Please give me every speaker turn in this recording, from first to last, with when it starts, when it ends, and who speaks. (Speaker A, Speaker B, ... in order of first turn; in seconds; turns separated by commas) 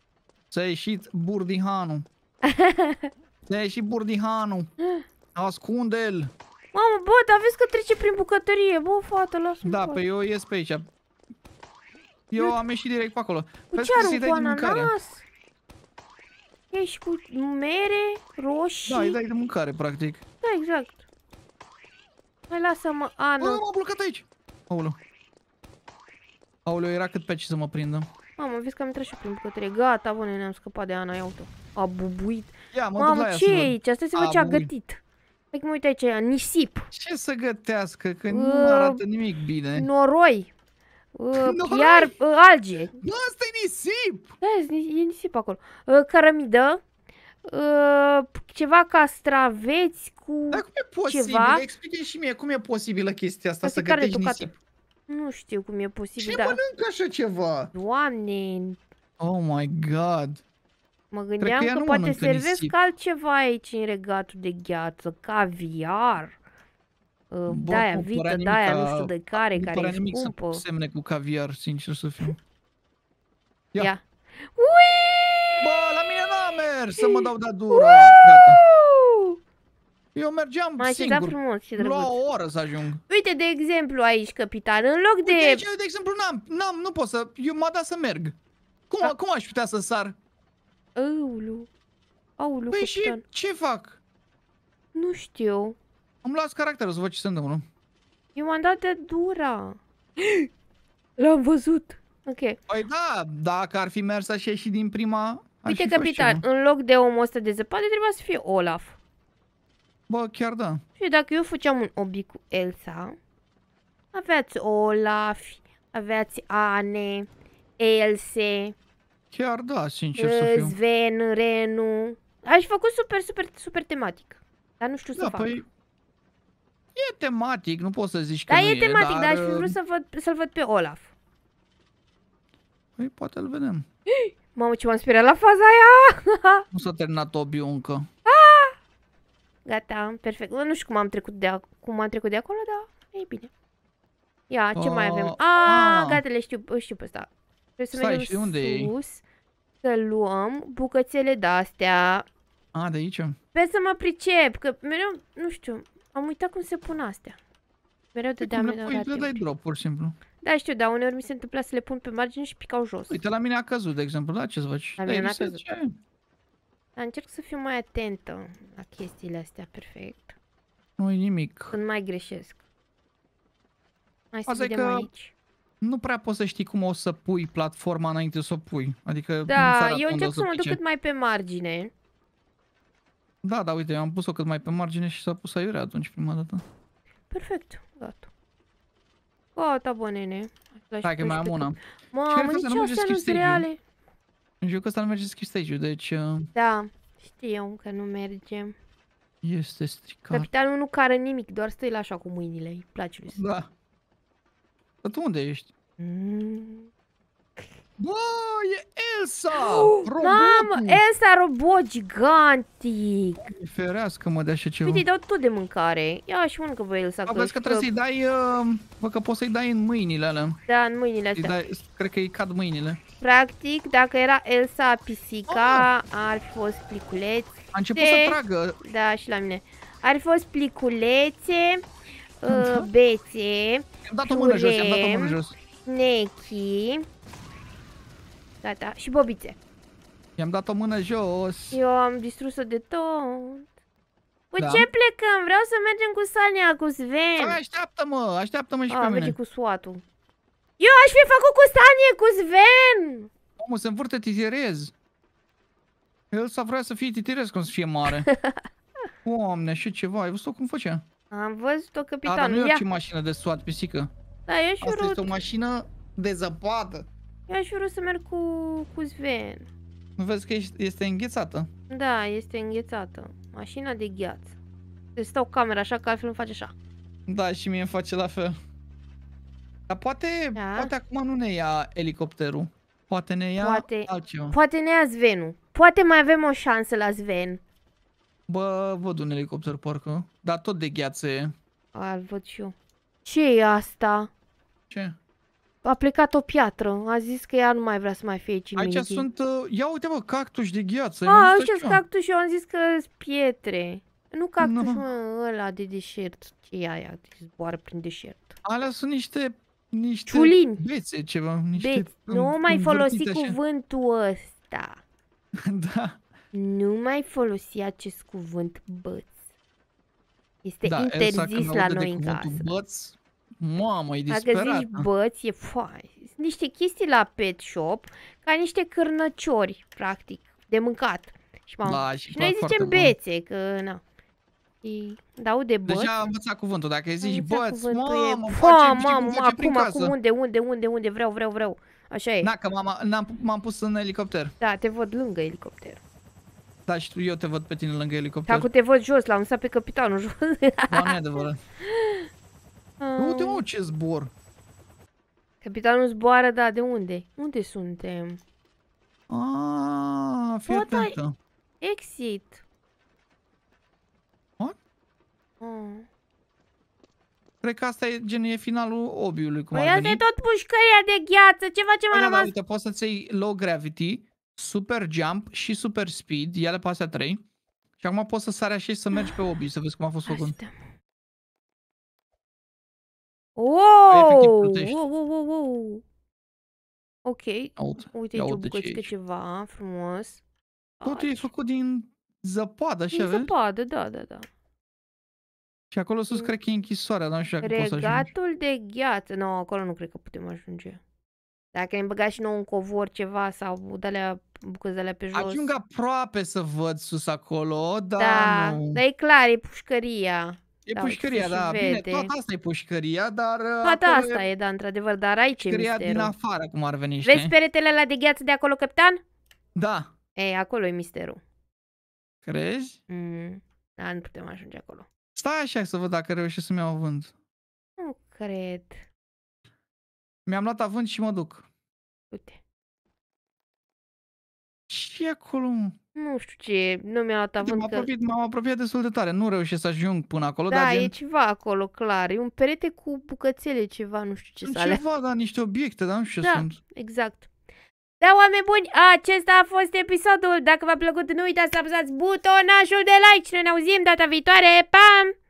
Speaker A: 0.5-2.1, Speaker B: 2.4-3.1, Speaker A: 3.5-4.7, Speaker A: 5.3-6.3, Speaker B: 6.7-10.0, Speaker A: 9.6-10.9, Speaker A: 12.3-14.9, Speaker B: 13.7-15.2, Speaker B: 16.7-19.2, Speaker A: 18.9-20.2, Speaker B: 20.4-21.0, Speaker B: 22.5-23.6, Speaker A: 23.4-25.0, Speaker A: 26.6-28.1, Speaker B: 28.4-35.0, Speaker A: 32.7-34.7, Speaker B: 35.5-36.9, Speaker A: 36.9-39.9, Speaker B: 38.3-39.0, Speaker B: 39.7-40.5, Speaker B: 41.1-43.0, Speaker A: 41.3-42.1, Speaker A: 43.0-44.3, Speaker B: 44.4-46.8, Speaker B: 47.5-51.7, Speaker A: 50.5-54.5, Speaker B: 53.6-54.5, Speaker B: 55.1-56.6, Speaker A: 56.2-57.7, Speaker B: 57.7-58.8, Speaker A: 59.2-60.4, Speaker B: 61.1-66.4, Speaker A: 61.4-62.8, Speaker B: 67.3-70.6, Speaker A: 67.5-72.4, Speaker B: 73.8-75.6, Speaker A: 75.6-78.6, Speaker B: 77.0-79.4, Speaker A: 80.2-83.0, Speaker B: 80.8-82.2, Speaker B: 83.1-85.7, Speaker A: 85.2-88.4, Speaker A: 88.9-90.2, Speaker B: 91.0-91.7, Speaker B: 92.4-93.2, Speaker A: 92.7-94.0, Speaker B: 95.0-95.8, Speaker A: 96.2-97.6, Speaker B: 98.3-100.5, Speaker B: 101.2-102.6, Speaker A: 102.7-106.4, Speaker B: 105.7-109.0, Speaker A: 110.1-110.8, Speaker B: 111.0-113.2, Speaker B: 114.1-117.3, Speaker B: 117.8-118.8, Speaker A: 119.3-120.8, Speaker B: 120.2-125.6, Speaker A: 125.2-125.7, Speaker A: 127.0-129.8, Speaker B: 128.5-131.1, Speaker A: 133.0-133.9, Speaker B: 134.1-136.6, Speaker A: 136.7-138.1, Speaker B: 138.2-138.8, Speaker B: 139.7-143.5, Speaker B: 144.5-149.2, Speaker A: 144.8-146.2, Speaker A: 147.9-148.9, Speaker B: 149.8-152.2, Speaker A: 152.7-153.4, Speaker B: 153.5-157.4, Speaker B: 158.2-159.4, Speaker A: 158.4-160.2, Speaker B: 160.4-163.2, Speaker A: 163.1-165.9, Speaker B: 165.0-165.6, Speaker B: 167.0-170.3, Speaker A: 171.0-171.8, Speaker B: 171.7-172.6, Speaker B: 174.3-175.3, Speaker A: 174.5-175.1, Speaker A: 175.8-180.8, Speaker B: 179.5-181.9, Speaker A: 183.4-186.6, Speaker B: 187.3-188.3, Speaker B: 189.6-193.8, Speaker A: 191.0-191.8, Speaker A: 192.3-193.7, Speaker A: 194.6-196.5, Speaker B: 196.6-198.7, Speaker A: 199.4-200.5, Speaker B: 200.3-203.4, Speaker A: 203.3-203.7, Speaker A: 205.0-205.7, Speaker B: 206.0-206.9, Speaker A: 208.0-211.0, Speaker B: 209.6-213.5, Speaker A: 213.4-215.1, Speaker B: 214.8-217.9, Speaker A: 217.3-220.6, Speaker B: 220.7-221.6, Speaker A: 221.4-223.0, Speaker B: 223.2-231.8, Speaker A: 225.5-225.9, Speaker A: 227.7-228.8, Speaker B: 232.4-237.1, Speaker A: 232.5-232.9, Speaker A: 234.1-235.6, Speaker B: 238.6-239.6, Speaker A: 240.4-241.8, Speaker B: 241.7-243.7, Speaker B: 244.5-247.6, Speaker A: 244.6-244.9, Speaker A: 247.4-249.4, Speaker B: 248.9-250.0, Speaker B: 250.8-253.3, Speaker A: 253.6-254.9, Speaker A: 256.3-258.3, Speaker B: 258.1-258.6, Speaker A: 259.2-261.0, Speaker B: 261.3-262.8, Speaker A: 262.2-264.1, Speaker B: 264.5-265.4, Speaker A: 264.8-267.1, Speaker B: 267.5-269.7, Speaker A: 270.2-271.7, Speaker B: 271.9-274.5, Speaker B: 275.1-276.7, Speaker A: 277.3-278.5, Speaker A: 279.9-284.6, Speaker B: 280.5-280.9, Speaker B: 283.6-287.6, Speaker A: 288.5-291.5, Speaker B: 291.9-294.3, Speaker A: 294.9-295.2, Speaker B: 295.8-299.2, Speaker A: 298.8-302.0, Speaker B: 301.2-308.6, Speaker A: 304.6-305.0, Speaker A: 308.6-313.6, Speaker B: 310.3-310.8, Speaker B: 311.7-315.0, Speaker A: 315.7-316.2, Speaker B: 316.5-319.3, Speaker B: 320.6-322.7, Speaker A: 320.9-325.1, Speaker B: 324.3-334.0, Speaker A: 331.8-333.2, Speaker B: 334.8-336.1, Speaker A: 335.9-340.1, Speaker B: 337.2-342.5, Speaker A: 342.4-344.5, Speaker B: 344.6-346.0, Speaker A: 346.9-348.7, Speaker B: 348.5-351.2, Speaker A: 350.9-351.6, Speaker B: 351.9-352.3, Speaker B: 353.0-353.6, Speaker A: 353.2-354.3, Speaker B: 355.6-358.4, Speaker A: 359.3-361.4, Speaker B: 360.7-361.2, Speaker B: 361.8-362.6, Speaker B: 365.6-366.1, Speaker A: 367.6-370.2, Speaker B: 369.7-372.5, Speaker A: 372.1-377.4, Speaker A: 378.0-380.6, Speaker B: 380.2-380.8, Speaker B: 383.6-386.0, Speaker A: 384.1-385.0, Speaker B: 387.2-390.4, Speaker A: 387.8-389.1, Speaker B: 391.0-391.5, Speaker A: 391.0-393.5, Speaker B: 393.1-394.5, Speaker A: 395.9-398.3, Speaker B: 397.6-401.0, Speaker B: 401.7-405.7, Speaker A: 405.3-409.0, Speaker B: 408.2-412.3, Speaker A: 410.9-414.5, Speaker B: 413.8-416.3, Speaker A: 415.6-417.5, Speaker B: 417.2-419.2, Speaker A: 419.8-420.1, Speaker B: 420.4-421.4, Speaker A: 422.4-423.0, Speaker B: 423.1-425.1, Speaker A: 425.4-427.3, Speaker B: 428.0-429.0, Speaker A: 430.5-431.6, Speaker B: 432.3-432.6, Speaker A: 434.9-435.9, Speaker B: 436.2-438.1, Speaker A: 437.6-441.1, Speaker B: 440.7-445.0, Speaker A: 444.6-446.8, Speaker B: 446.4-447.5, Speaker B: 448.2-455.3